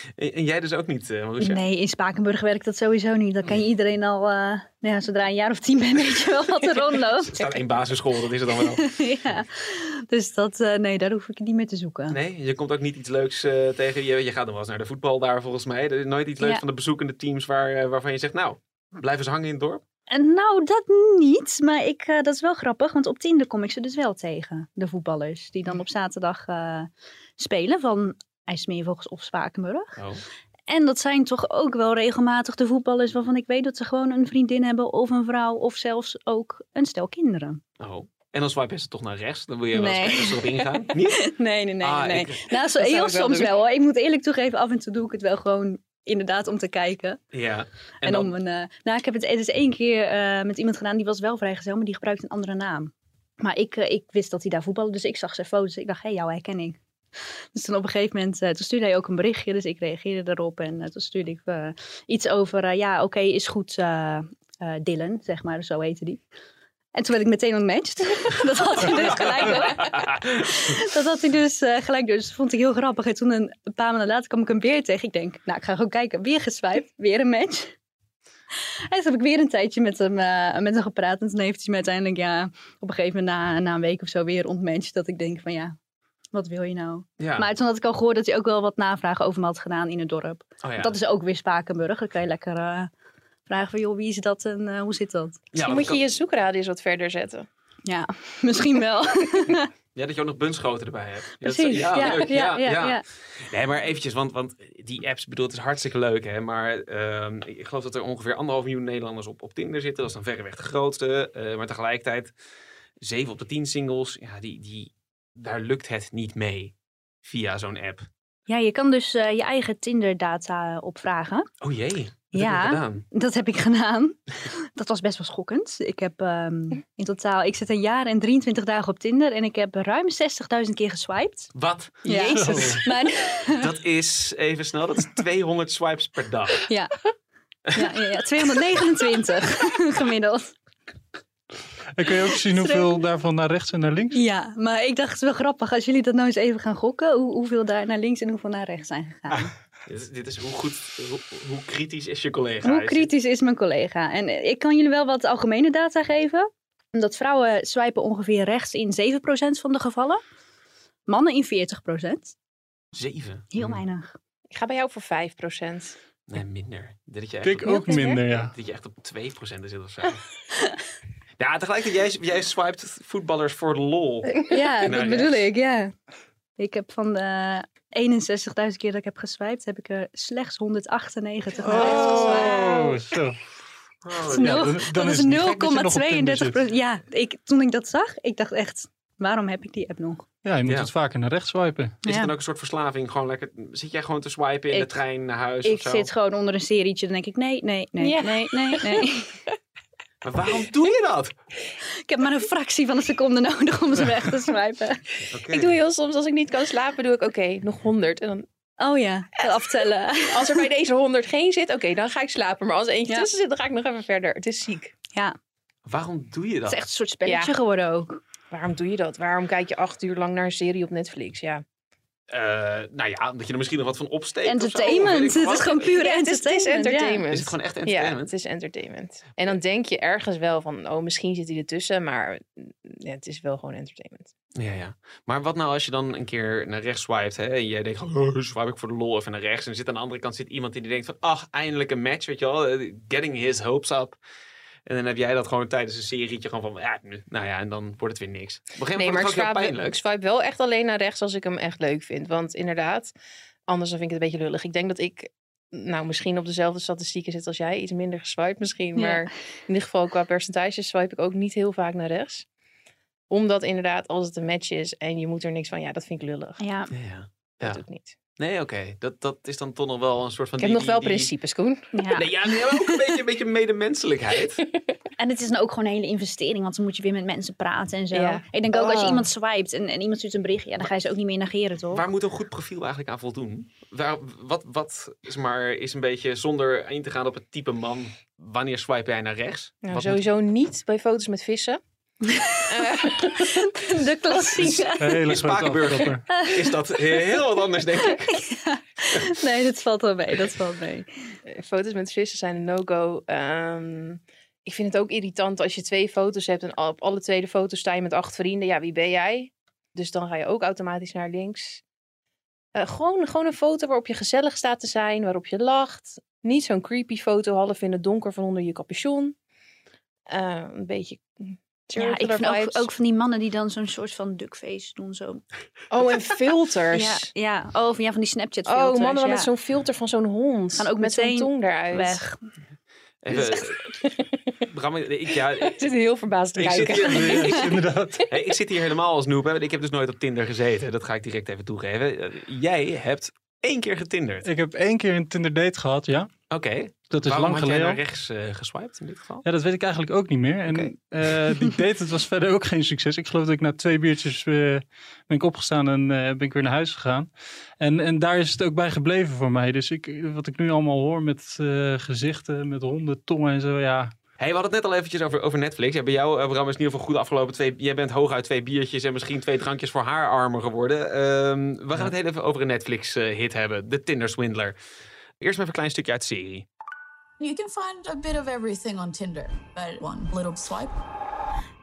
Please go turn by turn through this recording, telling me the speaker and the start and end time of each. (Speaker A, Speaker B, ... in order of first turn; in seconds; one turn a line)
Speaker A: 0.2-1.6
Speaker B: 1.4-7.4
Speaker A: 7.1-9.3
Speaker B: 8.7-12.2
Speaker A: 12.1-19.8
Speaker B: 20.1-30.0
Speaker B: 30.7-37.6
Speaker A: 37.8-42.5
Speaker B: 39.7-40.4
Speaker B: 41.1-47.2
Speaker C: 42.7-43.5
Speaker A: 47.3-48.3
Speaker B: 48.0-56.8
Speaker B: 57.5-66.2
Speaker B: 66.9-77.8
Speaker A: 69.4-70.5
Speaker B: 78.9-85.7
Speaker B: 86.3-92.9
Speaker A: 87.2-87.5
Speaker A: 90.6-91.0
Speaker B: 93.5-95.4
Speaker A: 95.5-96.0
Speaker C: 95.6-97.5
Speaker B: 97.8-99.7
Speaker A: 99.9-112.3
Speaker B: 101.4-103.0
Speaker A: 113.0-118.1
Speaker B: 118.5-121.5
Speaker A: 121.6-123.0
Speaker B: 122.3-131.5
Speaker A: 131.5-132.7
Speaker B: 132.0-133.7
Speaker C: 132.1-132.5
Speaker D: 132.3-132.8
Speaker A: 133.4-136.7
Speaker B: 136.7-137.0
Speaker A: 137.7-137.9
Speaker B: 137.7-140.5
Speaker D: 141.9-144.2
Speaker B: 142.3-143.0
Speaker B: 144.1-149.5
Speaker A: 149.8-153.1
Speaker B: 152.6-160.2
Speaker B: 161.1-162.3
Speaker A: 162.9-163.8
Speaker B: 163.5-164.2
Speaker C: 164.5-165.9
Speaker A: 166.3-170.2
Speaker D: 167.4-168.5
Speaker C: 167.7-168.2
Speaker A: 171.4-175.4
Speaker B: 174.4-175.9
Speaker B: 176.6-182.8
Speaker D: 181.6-183.4
Speaker C: 181.8-182.9
Speaker A: 182.0-182.4
Speaker A: 184.0-184.8
Speaker B: 184.3-190.2
Speaker D: 184.3-186.6
Speaker D: 190.4-192.0
Speaker A: 190.7-190.9
Speaker B: 192.0-192.3
Speaker A: 192.1-196.1
Speaker B: 195.6-199.4
Speaker C: 198.0-199.1
Speaker A: 200.2-201.3
Speaker B: 202.0-205.0
Speaker A: 205.3-205.8
Speaker C: 205.5-208.4
Speaker B: 208.8-210.7
Speaker C: 210.3-214.9
Speaker A: 215.8-216.8
Speaker B: 216.7-218.2
Speaker C: 217.2-217.5
Speaker C: 218.5-221.6
Speaker A: 222.3-225.9
Speaker B: 224.4-227.2
Speaker C: 225.7-234.3
Speaker A: 227.3-228.3
Speaker A: 234.6-244.2
Speaker A: 244.8-250.0
Speaker C: 248.9-253.1
Speaker C: 253.7-262.4
Speaker B: 258.9-259.3
Speaker C: 263.3-266.6
Speaker B: 266.6-266.9
Speaker A: 266.9-267.8
Speaker C: 267.6-268.2
Speaker A: 268.4-271.3
Speaker C: 270.6-271.9
Speaker B: 271.9-273.1
Speaker A: 272.1-274.6
Speaker B: 275.2-282.0
Speaker C: 278.1-279.3
Speaker A: 281.9-290.2
Speaker C: 289.8-291.8
Speaker B: 292.2-295.2
Speaker C: 292.6-293.7
Speaker A: 294.6-298.4
Speaker D: 295.0-296.2
Speaker B: 296.3-296.6
Speaker B: 298.0-301.1
Speaker C: 301.4-311.8
Speaker C: 312.7-319.3
Speaker C: 320.3-322.9
Speaker B: 321.9-325.4
Speaker C: 325.9-327.2
Speaker B: 326.9-329.5
Speaker C: 328.6-332.2
Speaker B: 330.8-332.4
Speaker A: 333.2-333.9
Speaker C: 333.3-334.6
Speaker A: 334.6-335.8
Speaker C: 335.4-338.4
Speaker D: 336.6-338.2
Speaker A: 336.6-344.5
Speaker D: 344.4-346.3
Speaker A: 346.5-349.4
Speaker D: 347.1-348.0
Speaker D: 349.4-364.1
Speaker A: 350.7-351.5
Speaker A: 364.4-374.7
Speaker A: 375.4-376.7
Speaker E: 377.4-381.0